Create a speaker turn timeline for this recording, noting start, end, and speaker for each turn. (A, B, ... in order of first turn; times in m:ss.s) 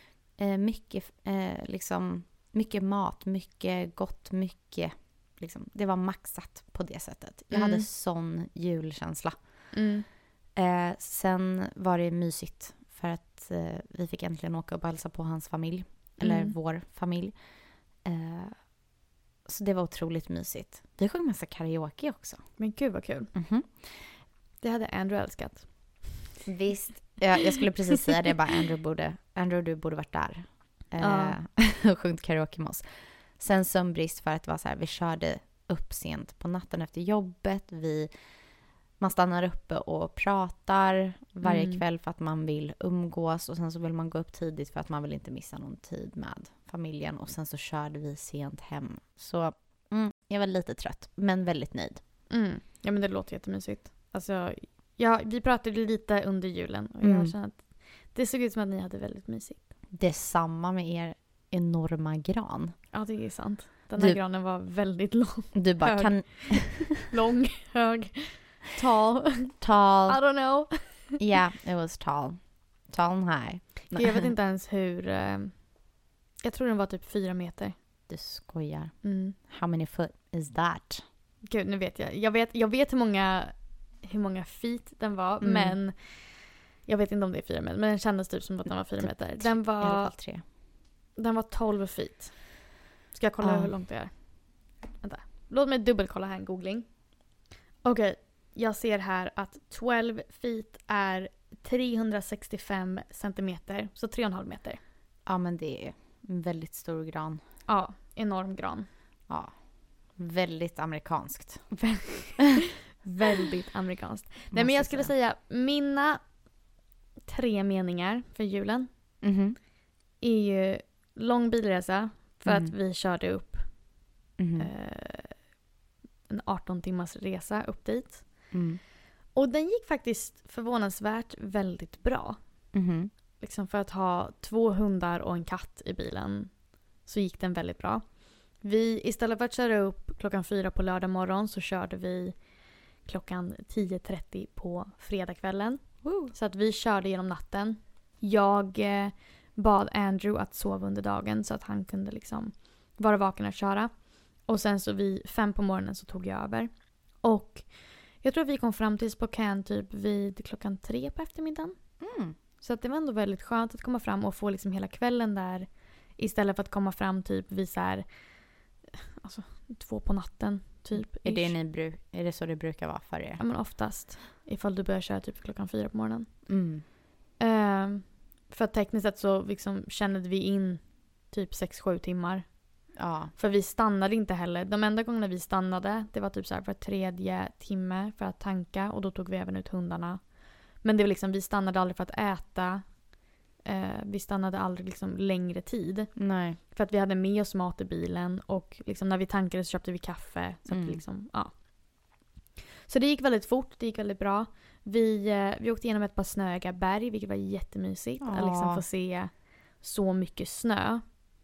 0:00.4-0:09.4 A
0:07.5-0:07.8 B
0:09.7-0:10.0 B
0:10.6-0:17.3 A
0:16.2-0:16.5 B
0:18.0-0:18.6 A
0:19.4-0:22.4 A
0:22.6-0:23.3 B
0:23.3-0:23.9 A
0:24.6-0:26.2 B
0:26.4-0:32.8 A
0:31.0-0:31.3 B
0:33.4-0:38.1 A
0:39.0-0:52.0 A
0:41.4-0:41.8 B
0:52.3-0:59.6 B
0:57.0-0:57.3 A
0:59.9-1:02.7 A
1:02.9-1:09.5 B
1:05.5-1:07.0 A
1:09.4-1:10.2 A
1:10.1-1:11.0 B
1:11.2-1:14.3 A
1:13.9-1:15.5 B
1:16.4-1:17.7 B
1:18.1-1:21.0 A
1:19.0-1:19.4 B
1:21.4-1:30.1 B
1:25.4-1:25.8 A
1:29.0-1:30.4 A
1:31.2-1:32.6 B
1:33.1-1:34.1 B
1:33.4-1:33.7 A
1:35.0-1:36.9 B
1:37.8-1:44.8 B
1:45.2-1:47.4 A
1:47.7-1:48.9 B
1:50.2-1:51.6 A
1:51.7-1:56.2 B
1:54.5-1:55.1 A
1:57.3-1:58.9 B
1:59.2-1:59.6 A
2:00.2-2:03.6 B
2:02.4-2:02.7 A
2:04.4-2:04.7 A
2:04.6-2:05.3 B
2:06.3-2:08.2 B
2:08.5-2:08.8 A
2:09.3-2:12.4 B
2:12.7-2:13.1 A
2:13.4-2:16.5 B
2:17.0-2:18.0 B
2:18.6-2:22.3 B
2:23.0-2:33.9 B
2:26.0-2:26.3 A
2:34.5-2:36.7 B
2:37.2-2:37.7 B
2:38.2-2:41.8 B
2:42.0-2:42.3 A
2:42.6-2:48.0 B
2:49.2-2:51.5 B
2:51.1-2:53.4 A
2:53.4-2:56.3 B
2:56.5-2:56.8 A
2:57.4-3:02.5 B
3:03.0-3:03.3 A
3:03.4-3:10.2 B
3:10.8-3:12.9 B
3:13.6-3:16.1 B
3:16.2-3:16.6 A
3:16.7-3:21.5 B
3:20.7-3:21.0 A
3:22.8-3:31.0 B
3:28.2-3:28.8 A